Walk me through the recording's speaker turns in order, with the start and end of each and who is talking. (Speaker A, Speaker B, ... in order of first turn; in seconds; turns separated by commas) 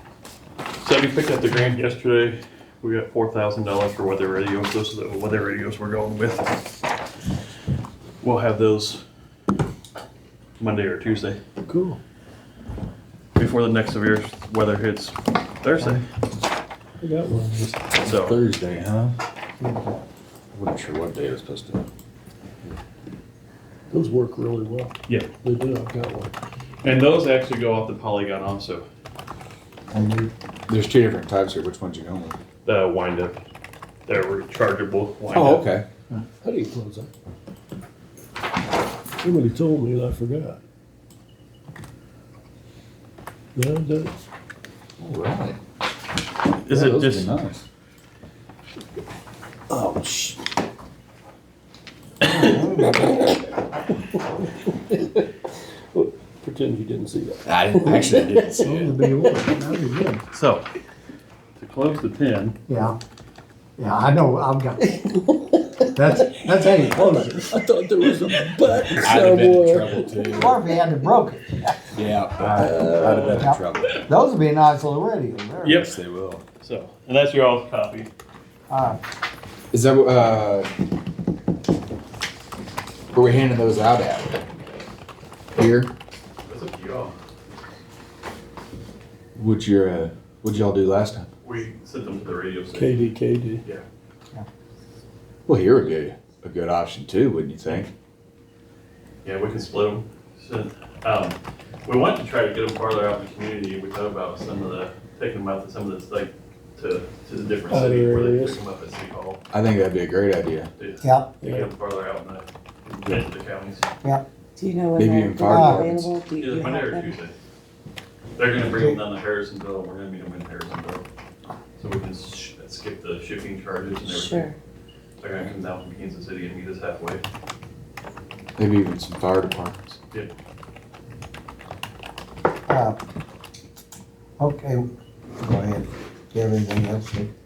Speaker A: 0.8-6.5, Speaker A: 8.2-9.0, Speaker A: 10.6-11.4, Speaker B: 11.7-12.0, Speaker A: 13.3-16.0, Speaker B: 17.0-17.9, Speaker A: 18.0-18.4, Speaker C: 18.0-19.1, Speaker D: 19.6-20.0, Speaker C: 20.5-21.8, Speaker B: 23.9-26.3, Speaker A: 26.8-28.8, Speaker C: 29.9-32.4, Speaker A: 32.6-33.4, Speaker A: 34.1-35.7, Speaker C: 35.3-35.9, Speaker B: 36.4-37.1, Speaker B: 39.2-40.6, Speaker B: 43.5-44.1, Speaker C: 45.0-45.6, Speaker A: 46.6-47.3, Speaker C: 46.7-47.6, Speaker B: 49.7-50.4, Speaker D: 52.2-53.1, Speaker B: 52.9-53.3, Speaker B: 54.1-55.2, Speaker B: 55.9-59.4, Speaker C: 57.5-58.9, Speaker D: 58.6-60.2, Speaker A: 60.3-60.6, Speaker A: 61.6-62.6, Speaker D: 62.7-63.0, Speaker D: 63.8-65.0, Speaker B: 65.0-66.4, Speaker D: 65.9-67.6, Speaker B: 67.0-70.2, Speaker C: 68.8-70.6, Speaker D: 70.3-72.8, Speaker C: 71.9-74.0, Speaker B: 72.5-73.5, Speaker D: 73.3-75.8, Speaker A: 75.6-76.0, Speaker C: 75.8-76.4, Speaker A: 76.6-78.1, Speaker D: 78.7-79.0, Speaker C: 79.7-80.7, Speaker C: 83.1-84.4, Speaker C: 85.5-85.9, Speaker A: 86.5-87.2, Speaker C: 89.3-91.3, Speaker A: 91.4-93.0, Speaker B: 92.7-93.6, Speaker C: 95.5-97.9, Speaker A: 99.2-109.4, Speaker B: 107.7-108.6, Speaker C: 109.5-110.7, Speaker A: 110.8-113.8, Speaker D: 111.0-111.3, Speaker B: 111.4-111.7, Speaker E: 114.5-117.2, Speaker C: 115.0-116.1, Speaker D: 115.5-115.9, Speaker A: 116.4-117.3, Speaker A: 118.4-121.0, Speaker D: 118.7-119.0, Speaker A: 121.8-124.5, Speaker E: 124.0-124.5, Speaker A: 125.2-127.2, Speaker C: 128.6-130.0, Speaker D: 132.7-133.0, Speaker D: 134.4-137.3